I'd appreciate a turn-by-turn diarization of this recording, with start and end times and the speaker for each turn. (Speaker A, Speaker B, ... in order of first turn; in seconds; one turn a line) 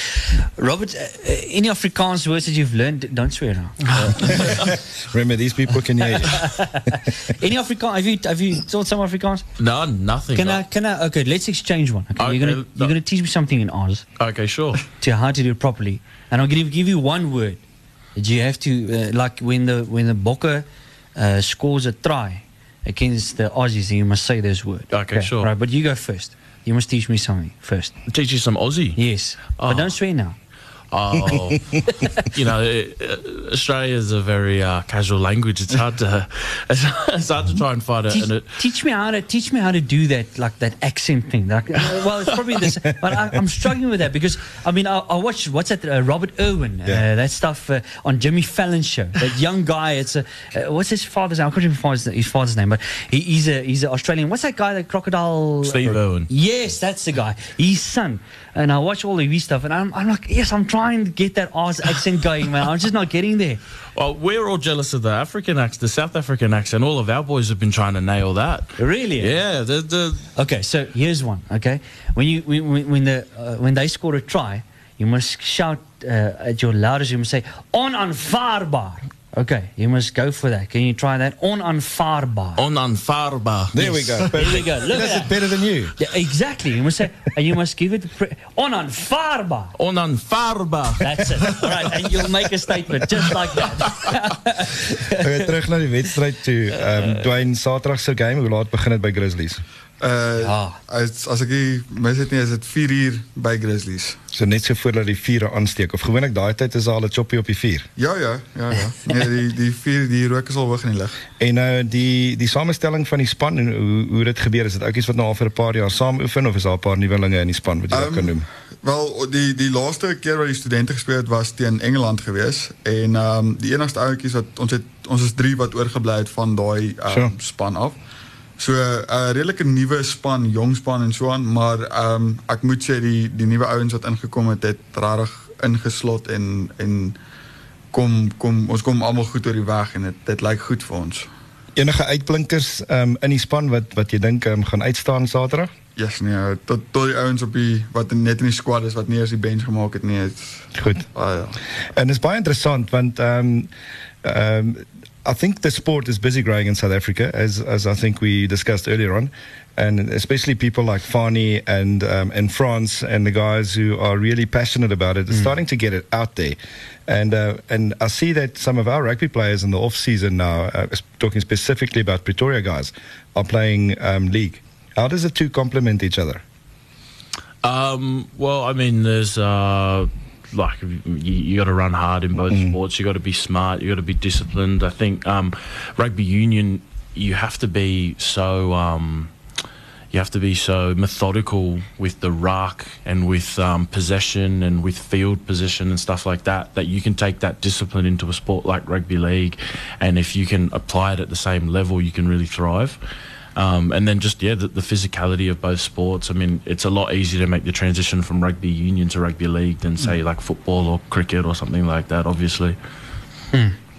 Speaker A: 0.1-4.7
Speaker B: 3.9-4.5
Speaker C: 4.2-6.9
Speaker A: 6.0-9.4
Speaker B: 9.6-10.6
Speaker A: 10.3-14.0
Speaker B: 12.2-12.9
Speaker B: 14.2-14.8
Speaker A: 15.0-17.6
Speaker A: 18.1-20.6
Speaker A: 21.1-27.9
Speaker B: 24.9-25.5
Speaker B: 28.1-29.0
Speaker A: 28.9-30.4
Speaker B: 29.6-29.9
Speaker B: 30.9-38.6
Speaker A: 38.1-63.6
Speaker B: 55.6-56.3
Speaker B: 63.9-70.3
Speaker A: 68.8-69.3
Speaker A: 70.3-82.6
Speaker B: 82.6-84.3
Speaker C: 83.7-86.0
Speaker A: 83.8-85.3
Speaker A: 86.0-89.7
Speaker B: 89.8-92.0
Speaker A: 91.0-95.5
Speaker C: 95.1-99.6
Speaker D: 100.0-104.2
Speaker A: 100.4-100.8
Speaker C: 104.3-107.9
Speaker D: 108.0-111.2
Speaker C: 111.4-118.5
Speaker D: 117.9-128.0
Speaker C: 127.1-127.3
Speaker D: 128.6-137.2
Speaker D: 137.9-141.3
Speaker C: 141.8-145.7
Speaker D: 145.9-151.6
Speaker C: 150.7-151.0
Speaker C: 151.9-153.7
Speaker C: 154.2-176.4
Speaker B: 177.6-189.3
Speaker C: 182.5-182.8
Speaker B: 190.1-203.0
Speaker B: 203.6-212.8